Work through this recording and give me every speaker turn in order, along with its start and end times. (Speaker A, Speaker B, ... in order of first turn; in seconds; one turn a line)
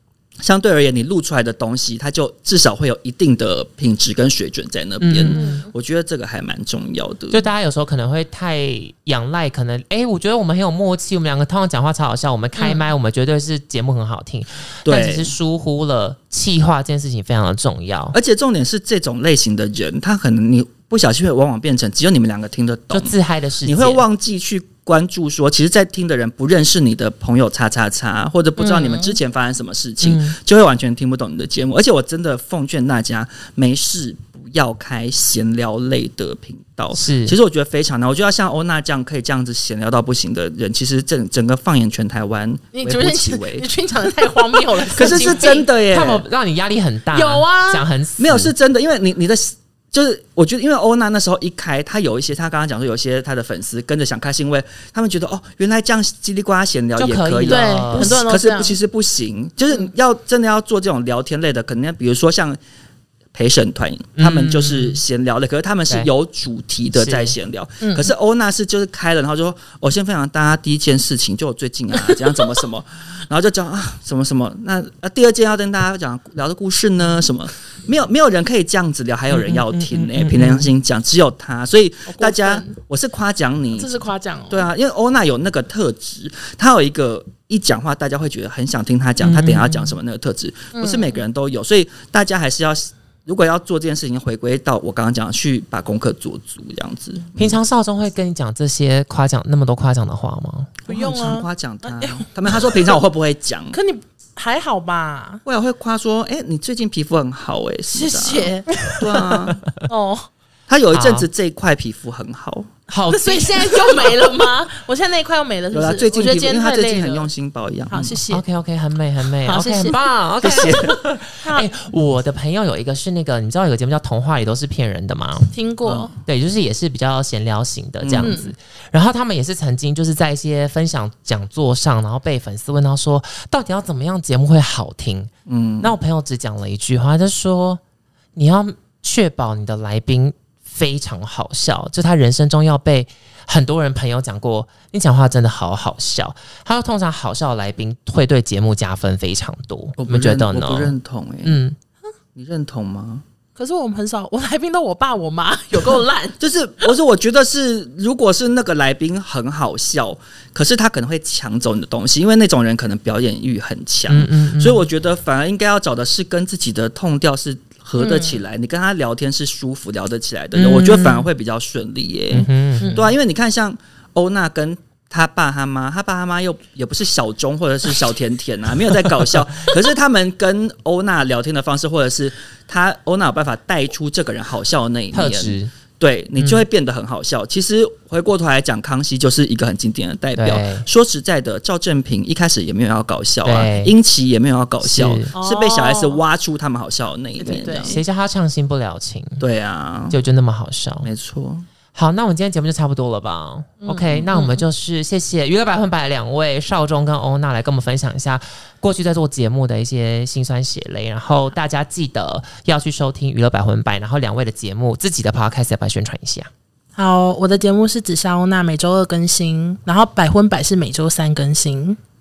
Speaker A: 0.4-7.5
Speaker B: 5.0-5.5
Speaker C: 5.3-5.7
Speaker B: 7.3-18.2
Speaker A: 14.8-15.3
Speaker A: 18.1-43.7
Speaker B: 22.9-24.0
Speaker C: 28.6-29.0
Speaker B: 30.0-30.4
Speaker B: 36.9-37.4
Speaker C: 42.7-45.6
Speaker A: 45.0-46.2
Speaker B: 45.0-48.5
Speaker C: 47.1-47.8
Speaker A: 48.2-62.6
Speaker B: 57.0-58.2
Speaker C: 57.5-58.7
Speaker A: 63.3-97.6
Speaker B: 64.2-65.0
Speaker B: 66.9-67.3
Speaker C: 67.8-68.1
Speaker B: 79.3-80.7
Speaker C: 82.1-82.7
Speaker C: 83.7-84.7
Speaker B: 89.2-90.0
Speaker C: 90.7-91.2
Speaker B: 97.4-100.8
Speaker A: 100.8-103.8
Speaker C: 100.9-103.0
Speaker C: 103.7-105.4
Speaker A: 105.4-109.6
Speaker C: 107.9-108.7
Speaker C: 109.9-110.3
Speaker A: 110.7-112.8
Speaker B: 110.9-111.3
Speaker B: 112.9-114.2
Speaker C: 113.1-117.3
Speaker A: 115.7-118.2
Speaker C: 117.9-118.4
Speaker B: 118.3-125.5
Speaker C: 119.4-120.6
Speaker A: 120.4-120.9
Speaker C: 121.4-121.7
Speaker C: 125.5-126.1
Speaker A: 125.8-126.1
Speaker B: 126.2-137.8
Speaker A: 128.0-128.3
Speaker C: 128.2-128.5
Speaker A: 135.5-135.9
Speaker B: 138.3-151.8
Speaker A: 150.0-151.6
Speaker A: 152.3-153.2
Speaker C: 153.6-156.4
Speaker A: 156.4-198.0
Speaker B: 164.1-164.9
Speaker C: 168.0-168.4
Speaker B: 170.5-171.3
Speaker B: 172.3-173.0
Speaker C: 172.8-173.1
Speaker B: 185.1-185.7
Speaker B: 186.4-186.6
Speaker B: 190.3-190.8
Speaker B: 193.4-193.9
Speaker B: 194.8-195.3
Speaker C: 195.3-196.2
Speaker C: 197.4-198.0
Speaker B: 197.8-199.4
Speaker A: 199.4-200.2
Speaker B: 200.1-201.1
Speaker A: 201.0-201.7
Speaker B: 201.9-216.5
Speaker C: 203.8-204.6
Speaker C: 216.9-222.0